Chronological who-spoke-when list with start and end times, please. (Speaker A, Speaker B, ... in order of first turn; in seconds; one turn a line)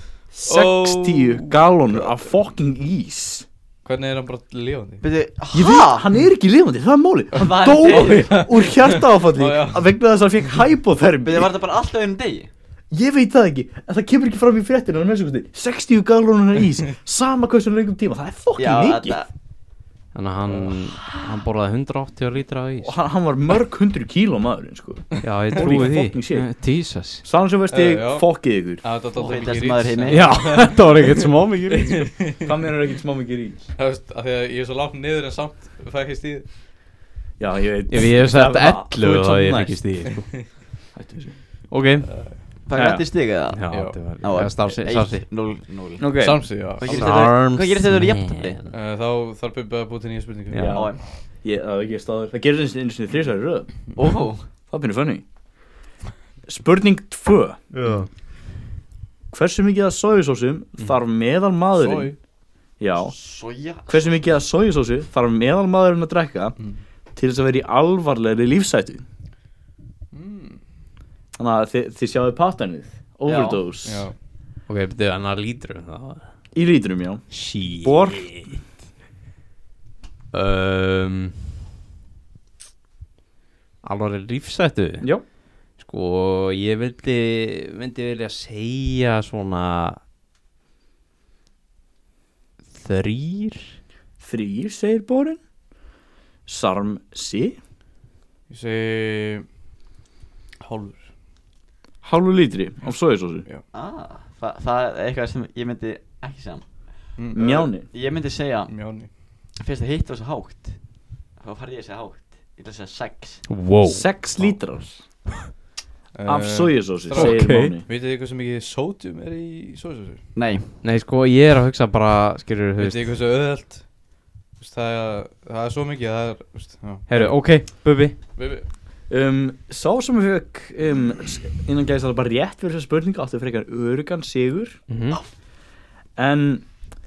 Speaker A: 0.3-3.5
Speaker B: 0.4-2.3
Speaker B: 3.9-5.0
Speaker C: 5.0-6.0
Speaker A: 5.5-11.5
Speaker C: 7.3-8.4
Speaker B: 7.7-10.6
Speaker C: 11.2-12.5
Speaker A: 12.9-19.2
Speaker C: 18.6-19.3
Speaker D: 20.1-23.0
Speaker B: 20.4-20.8
Speaker A: 22.8-28.8
Speaker B: 25.2-25.9
Speaker D: 25.2-27.2
Speaker B: 27.7-31.0
Speaker C: 29.1-30.6
Speaker D: 30.1-32.2
Speaker B: 31.7-32.5
Speaker A: 32.4-33.7
Speaker B: 33.8-36.5
Speaker A: 37.4-41.4
Speaker D: 37.9-40.6
Speaker B: 40.1-40.4
Speaker D: 41.7-42.3
Speaker B: 42.0-42.4
Speaker C: 42.7-48.6
Speaker A: 42.8-43.0
Speaker D: 43.5-45.2
Speaker B: 43.7-44.0
Speaker A: 46.0-46.5
Speaker B: 46.2-47.2
Speaker D: 46.8-48.7
Speaker B: 48.7-50.9
Speaker D: 50.5-50.9
Speaker A: 50.6-53.8
Speaker C: 50.7-51.0
Speaker C: 54.0-54.5
Speaker A: 54.7-55.2
Speaker A: 56.5-57.6
Speaker D: 57.7-58.1
Speaker A: 59.3-62.1
Speaker B: 61.8-62.1
Speaker A: 62.8-63.1
Speaker C: 63.0-64.2
Speaker A: 63.9-66.6
Speaker A: 67.1-69.0
Speaker B: 70.1-70.6
Speaker A: 71.4-74.1
Speaker C: 73.2-73.6
Speaker B: 73.8-74.2
Speaker D: 74.7-76.2
Speaker A: 76.5-78.6
Speaker D: 77.3-78.6
Speaker D: 80.3-81.4
Speaker D: 83.8-85.2
Speaker D: 85.8-90.0
Speaker D: 92.7-93.8
Speaker A: 94.2-95.4
Speaker A: 96.5-97.6
Speaker B: 98.5-99.5
Speaker B: 100.6-101.1
Speaker A: 102.0-103.5
Speaker C: 103.7-113.5
Speaker B: 107.2-107.9
Speaker A: 107.3-107.9
Speaker B: 108.7-109.1
Speaker D: 113.5-114.1
Speaker A: 113.9-115.0
Speaker B: 116.2-120.3
Speaker A: 116.3-117.8
Speaker D: 117.1-117.8
Speaker C: 120.3-120.8
Speaker D: 120.8-123.0
Speaker B: 122.8-127.6
Speaker D: 127.1-128.2
Speaker B: 128.4-128.7
Speaker A: 129.1-134.8
Speaker D: 134.9-135.2
Speaker A: 136.2-136.8